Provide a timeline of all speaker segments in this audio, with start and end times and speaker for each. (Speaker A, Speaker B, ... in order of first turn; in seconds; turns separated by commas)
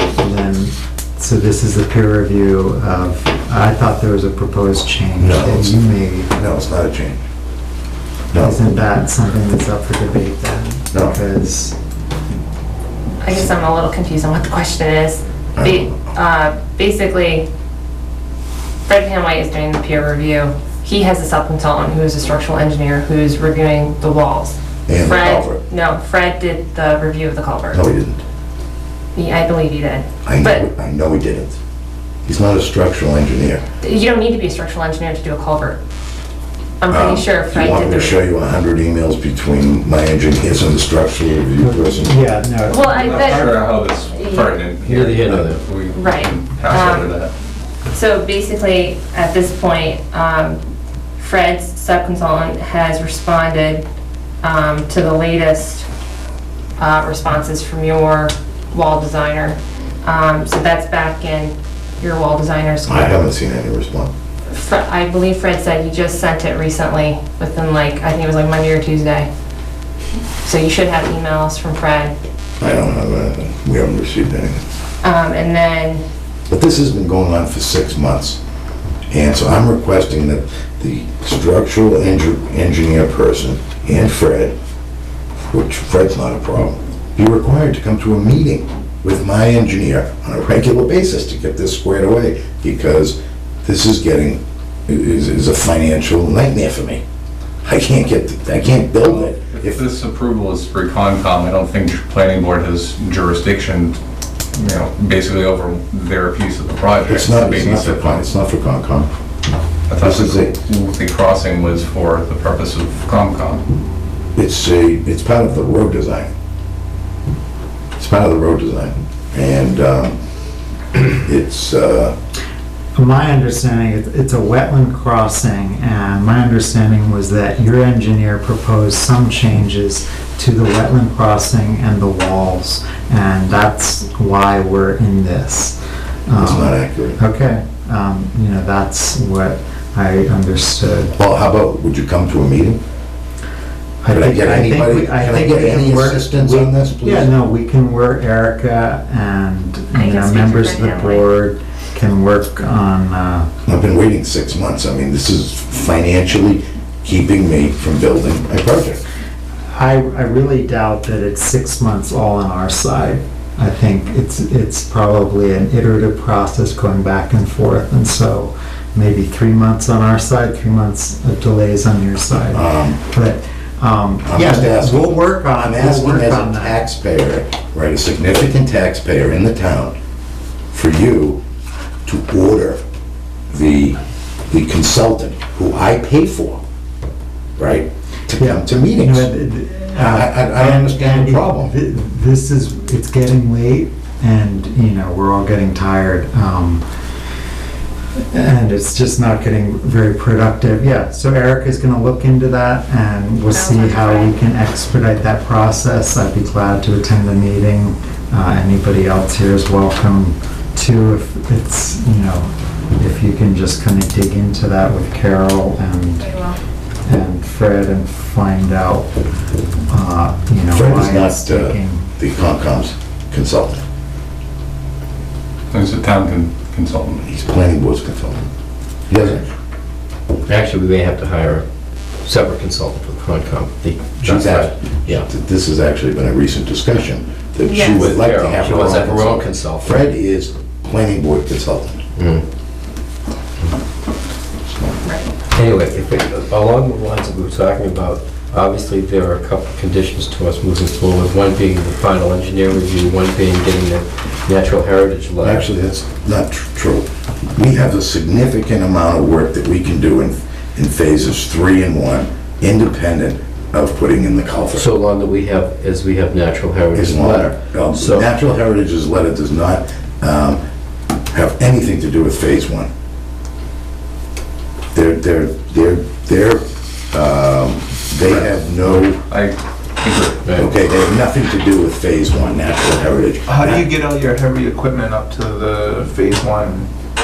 Speaker A: 0.2-6.3, Speaker B: 5.2-5.8, Speaker B: 6.3-7.2, Speaker B: 8.3-8.6, Speaker A: 8.3-11.8, Speaker C: 13.2-17.5, Speaker B: 15.6-15.9, Speaker C: 18.9-27.8, Speaker B: 24.9-25.6, Speaker B: 27.7-28.2, Speaker C: 29.1-30.7, Speaker B: 30.2-31.6, Speaker B: 32.3-33.6, Speaker C: 33.8-35.8, Speaker C: 36.8-38.2, Speaker B: 36.9-42.2, Speaker A: 41.6-43.4, Speaker C: 42.7-44.6, Speaker D: 42.8-47.3, Speaker E: 44.8-45.6, Speaker C: 45.9-47.2, Speaker C: 47.9-50.6, Speaker C: 51.2-53.8, Speaker C: 54.4-55.9, Speaker C: 56.8-63.2, Speaker B: 62.9-64.1, Speaker C: 64.5-69.3, Speaker C: 70.4-72.1, Speaker B: 72.6-74.6, Speaker C: 75.0-76.0, Speaker B: 76.5-78.4, Speaker B: 79.1-84.5, Speaker B: 85.5-97.0, Speaker B: 97.6-99.8, Speaker D: 99.0-104.0, Speaker D: 104.5-108.3, Speaker B: 107.0-109.1, Speaker D: 109.9-113.6, Speaker B: 110.0-110.5, Speaker B: 114.4-116.3, Speaker B: 118.0-120.2, Speaker B: 121.0-122.2, Speaker A: 123.0-141.2, Speaker B: 136.4-137.2, Speaker B: 141.1-142.8, Speaker A: 144.0-153.5, Speaker B: 144.1-147.3, Speaker C: 149.9-151.3, Speaker B: 153.7-159.0, Speaker A: 159.8-176.8, Speaker B: 172.5-173.0, Speaker B: 174.2-179.9, Speaker B: 180.7-181.4, Speaker B: 182.1-182.8, Speaker B: 183.5-184.0, Speaker B: 184.5-186.6, Speaker B: 187.6-189.3, Speaker A: 188.4-196.8, Speaker B: 189.9-191.7, Speaker A: 198.3-216.3, Speaker C: 203.5-204.3, Speaker C: 216.2-216.6, Speaker A: 217.1-219.1, Speaker A: 219.9-222.1, Speaker B: 220.7-223.8, Speaker D: 225.7-227.2, Speaker B: 227.3-228.5, Speaker B: 229.1-229.4, Speaker E: 230.5-231.7, Speaker E: 232.2-235.3, Speaker B: 234.2-242.0, Speaker C: 237.6-238.1, Speaker E: 237.8-240.0, Speaker E: 242.2-242.4, Speaker B: 244.7-245.0, Speaker C: 245.0-245.3, Speaker E: 245.5-255.7, Speaker B: 255.4-264.9, Speaker E: 264.7-268.3, Speaker B: 266.9-270.6, Speaker B: 271.3-272.9, Speaker B: 274.9-279.2, Speaker D: 279.3-280.5, Speaker B: 280.6-283.9, Speaker F: 283.5-286.9